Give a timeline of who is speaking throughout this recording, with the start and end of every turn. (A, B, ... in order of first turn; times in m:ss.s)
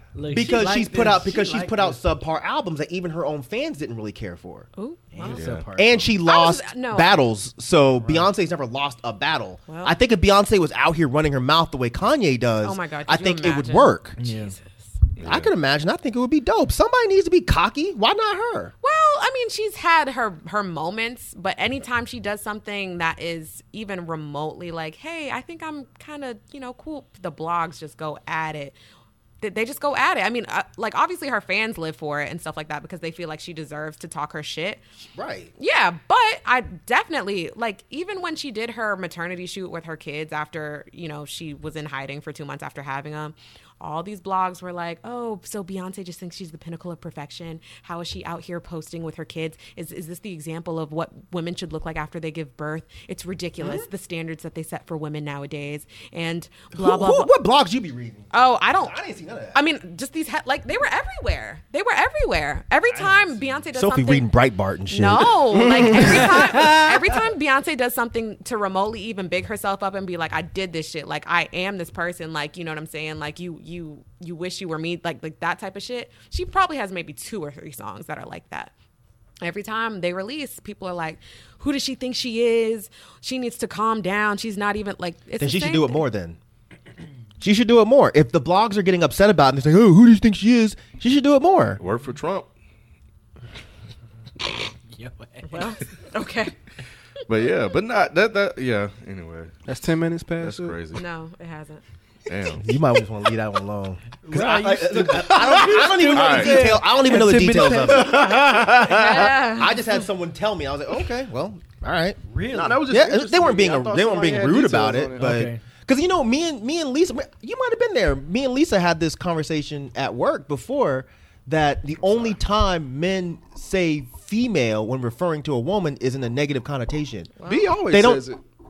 0:00.2-0:02.0 A
0:00.3-0:04.7 B
0:04.8-0:05.4 C
0:05.1-0:05.9 A
0:05.3-0:05.7 D
0:05.7-0:14.2 B
0:06.3-0:07.2 C
0:09.7-0:10.0 C
0:12.6-0:14.8 C
0:14.2-0:14.6 A
0:15.2-0:15.5 D
0:15.2-0:18.7 B
0:18.8-0:28.8 C
0:29.4-0:34.8 C
0:35.2-0:35.5 B
0:35.6-0:57.3 C
0:53.6-0:53.9 B
0:56.7-0:59.6 B
0:58.3-0:59.0 C
0:59.5-1:04.3 C
1:03.7-1:06.4 B
1:04.9-1:18.7 C
1:05.5-1:06.3 E
1:06.4-1:07.0 A
1:19.4-1:26.0 C
1:25.4-1:26.4 B
1:27.4-1:31.8 B
1:31.8-1:32.5 D
1:34.9-1:35.8 A
1:35.5-1:36.6 C
1:37.3-1:39.6 D
1:39.7-1:40.8 E
1:40.4-1:41.0 D
1:40.9-1:41.8 C
1:42.3-1:42.8 D
1:42.6-1:52.2 B
1:44.2-1:48.4 A
1:46.1-1:46.8 D
1:47.6-1:49.3 E
1:48.8-1:49.9 C
1:52.3-1:52.9 A
1:52.5-1:55.5 E
1:52.8-2:07.3 B
1:55.2-1:55.6 A
2:07.4-2:07.7 C
2:07.4-2:08.4 E
2:07.9-2:08.2 B